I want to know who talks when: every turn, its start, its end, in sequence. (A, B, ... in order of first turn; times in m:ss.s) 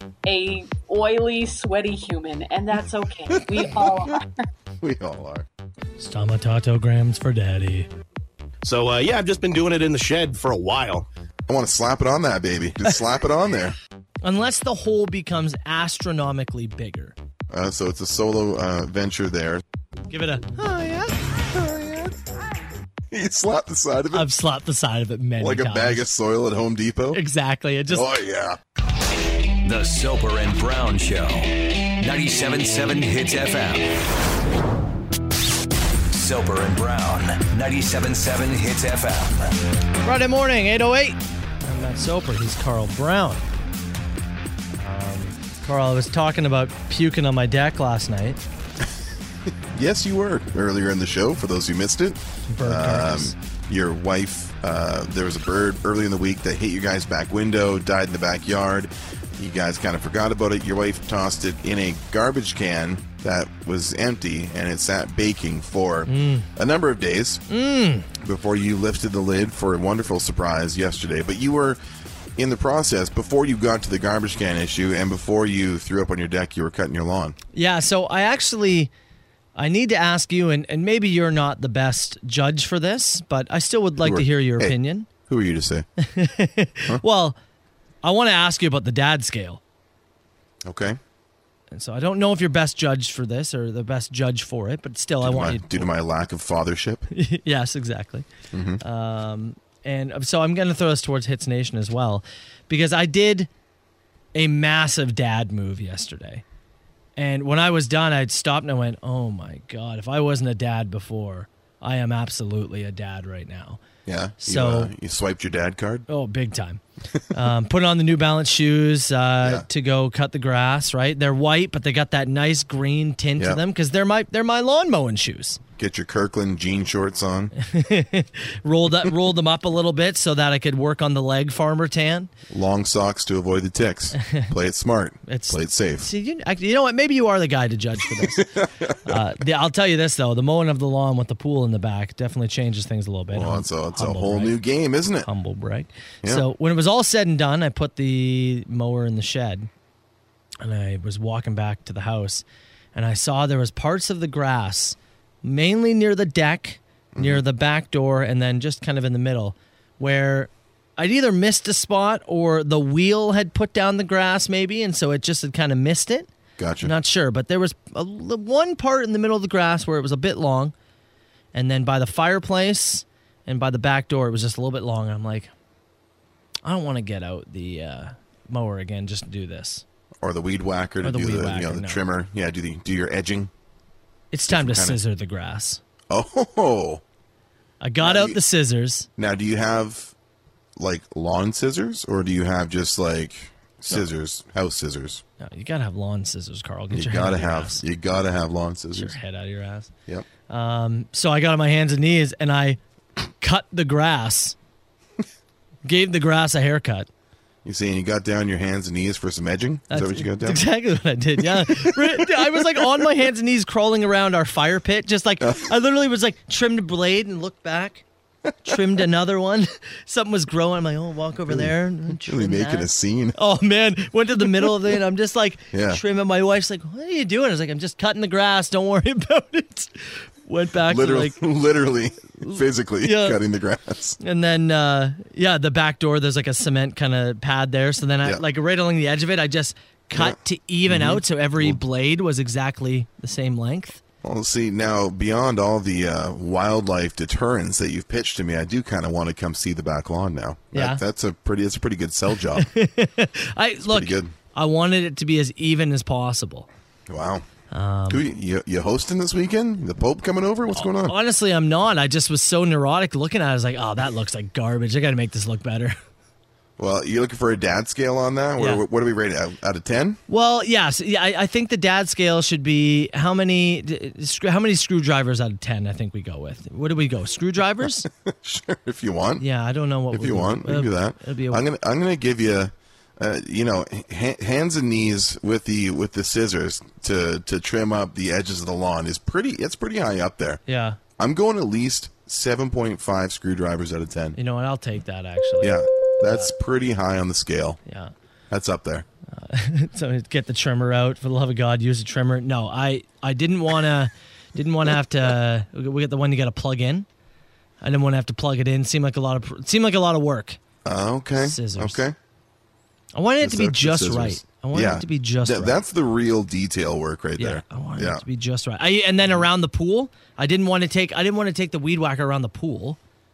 0:00.3-0:04.3 A
0:03.5-0:04.0 B
0:04.8-0:05.5 B
0:06.0-0:07.9 C
0:08.6-0:11.1 D
0:11.5-0:13.8 B
0:14.2-0:17.2 C
0:17.5-0:19.6 B
0:20.1-0:21.2 C
0:21.5-0:22.2 B
0:23.1-0:24.3 B
0:24.1-0:26.0 C
0:25.4-0:27.2 B
0:27.1-0:28.1 C
0:27.9-0:28.6 B
0:29.6-0:34.0 E
0:36.1-0:39.5 E
0:40.0-0:43.4 C
0:44.8-0:48.4 C
0:49.7-1:07.4 B
0:52.5-0:53.4 C
1:06.1-1:06.5 C
1:07.5-1:08.1 C
1:08.2-1:11.8 B
1:12.4-1:17.4 B
1:17.5-1:18.9 C
1:19.6-1:25.1 C
1:24.0-1:25.9 B
1:26.0-1:27.4 C
1:28.0-1:29.6 C
1:30.6-1:31.0 B
1:31.7-1:35.9 C
1:35.2-1:37.0 B
1:37.1-1:38.3 C
1:38.5-1:38.8 B
1:38.8-1:43.5 C
1:44.4-1:46.4 C
1:47.2-1:53.8 C
1:54.1-1:56.1 B
1:54.4-1:54.9 C
1:56.1-2:05.6 C
2:05.8-2:07.5 B
2:07.6-2:12.3 C
2:12.5-2:16.1 B
2:14.2-2:14.5 C
2:15.3-2:18.5 C
2:18.4-2:19.0 B
2:19.0-2:24.6 C
2:23.3-2:25.3 B
2:25.2-2:29.7 C
2:30.6-2:46.3 C
2:37.1-2:37.4 B
2:46.6-2:46.9 B
2:46.8-2:50.7 C
2:51.5-2:55.5 C
2:56.6-2:59.8 C
3:00.2-3:03.5 B
3:01.0-3:02.0 C
3:04.3-3:05.8 C
3:04.5-3:05.0 B
3:06.1-3:07.0 B
3:07.8-3:09.1 C
3:08.0-3:08.4 B
3:09.2-3:10.1 B
3:10.8-3:15.2 B
3:15.4-3:17.8 C
3:16.9-3:19.2 B
3:19.0-3:19.9 C
3:20.5-3:22.8 C
3:23.4-3:24.6 C
3:25.8-3:27.1 C
3:27.6-3:30.6 B
3:29.9-3:38.0 C
3:31.6-3:32.9 B
3:38.6-3:51.4 C
3:41.5-3:43.4 B
3:45.7-3:46.0 B
3:50.9-3:54.2 B
3:52.4-3:53.4 C
3:54.2-4:04.0 C
4:00.2-4:01.8 B
4:04.2-4:12.7 B
4:10.7-4:11.0 C
4:12.6-4:16.7 C
4:13.8-4:14.3 B
4:17.1-4:17.5 B
4:17.7-4:18.2 C
4:18.1-4:21.2 B
4:20.8-4:26.0 C
4:26.8-4:30.2 B
4:28.6-4:28.8 C
4:30.3-4:38.1 C
4:38.2-4:39.4 B
4:39.4-4:41.6 C
4:40.1-4:50.6 B
4:50.7-4:51.0 C
4:51.2-4:54.4 B
4:54.4-4:56.5 C
4:55.6-4:57.8 B
4:57.9-4:58.1 C
4:58.5-4:59.1 B
4:59.3-5:07.1 C
5:07.8-5:10.6 C
5:10.8-5:12.2 B
5:11.4-5:12.0 C
5:13.1-5:15.8 C
5:13.4-5:18.2 B
5:17.4-5:23.0 C